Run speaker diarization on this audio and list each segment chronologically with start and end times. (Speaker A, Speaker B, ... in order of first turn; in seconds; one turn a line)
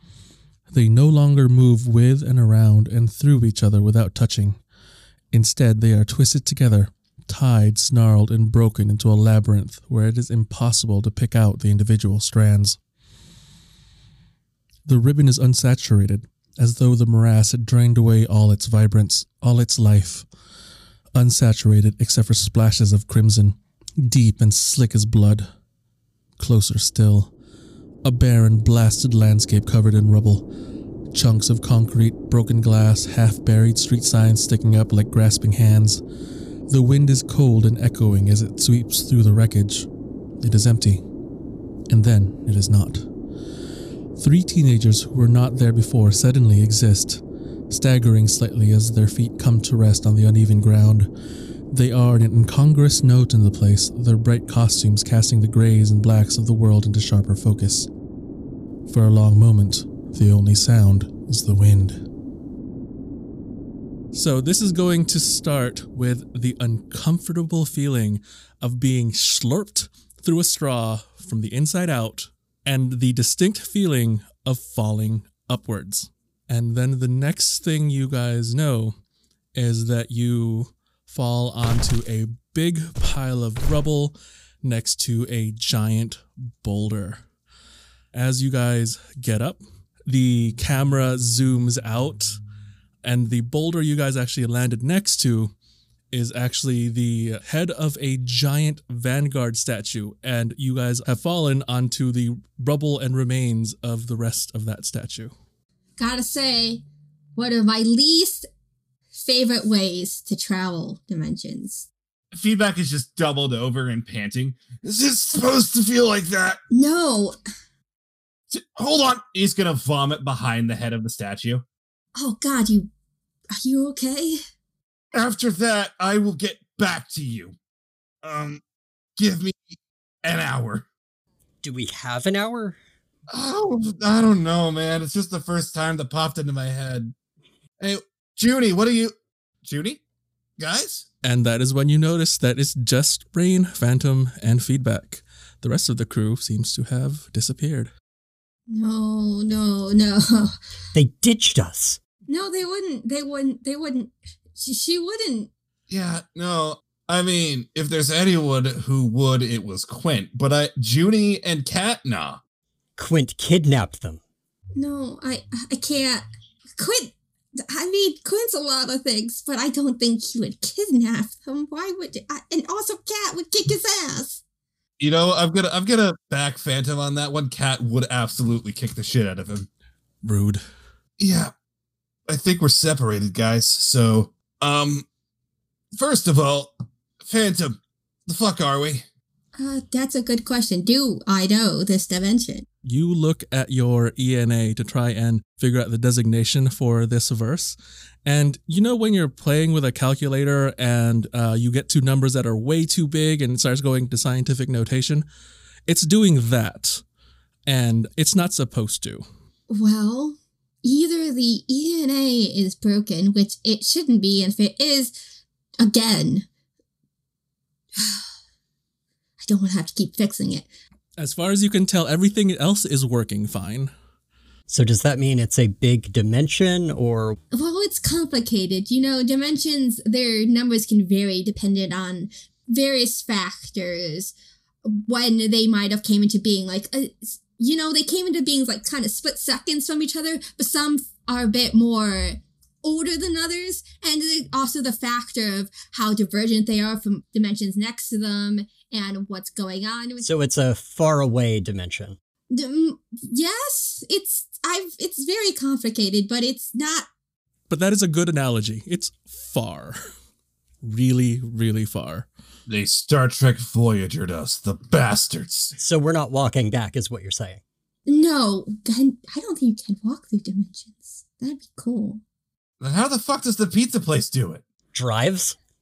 Speaker A: 0.7-4.6
Speaker A: 5.3-12.8
Speaker A: 14.8-20.3
Speaker A: 21.1-25.5
Speaker A: 26.4-27.3
Speaker A: 28.0-30.4
Speaker A: 31.1-36.0
Speaker A: 36.7-39.9
Speaker A: 40.4-41.0
Speaker A: 41.9-43.1
Speaker A: 44.1-51.1
Speaker A: 51.7-57.9
Speaker A: 58.9-62.0
Speaker A: 64.1-79.0
Speaker A: 79.5-87.2
Speaker A: 88.1-92.4
Speaker A: 93.0-95.5
Speaker A: 96.1-105.3
Speaker B: 106.0-106.8
Speaker B: 107.3-108.5
Speaker B: 109.1-111.9
Speaker C: 112.3-116.6
Speaker B: 116.7-117.4
Speaker C: 118.5-121.6
Speaker B: 122.2-122.9
Speaker B: 123.6-124.4
Speaker C: 125.1-127.5
Speaker C: 128.2-128.6
Speaker C: 129.2-129.6
Speaker C: 130.2-130.8
Speaker D: 131.6-132.8
Speaker C: 133.3-137.1
Speaker C: 137.8-140.0
Speaker C: 140.6-141.1
Speaker A: 141.2-147.9
Speaker B: 148.7-150.5
Speaker D: 150.9-152.0
Speaker B: 152.3-155.5
Speaker C: 155.9-162.4
Speaker D: 163.0-164.2
Speaker B: 164.8-166.2
Speaker B: 166.8-174.4
Speaker C: 175.0-179.7
Speaker A: 180.2-180.6
Speaker C: 181.2-181.5
Speaker C: 182.3-185.0
Speaker C: 185.9-189.0
Speaker B: 189.6-192.7
Speaker A: 192.8-205.3
Speaker A: 205.8-207.0
Speaker A: 207.7-209.2
Speaker B: 209.7-215.1
Speaker B: 215.8-216.5
Speaker B: 218.0-218.3
Speaker B: 219.4-220.7
Speaker A: 221.2-223.9
Speaker D: 224.7-227.4
Speaker B: 227.5-234.3
Speaker B: 234.8-250.3
Speaker D: 250.2-252.2
Speaker B: 252.5-257.1
Speaker A: 257.7-260.0
Speaker A: 260.8-262.3
Speaker C: 262.7-265.7
Speaker D: 265.8-267.6
Speaker B: 268.1-272.2
Speaker C: 272.8-274.6
Speaker D: 274.9-275.6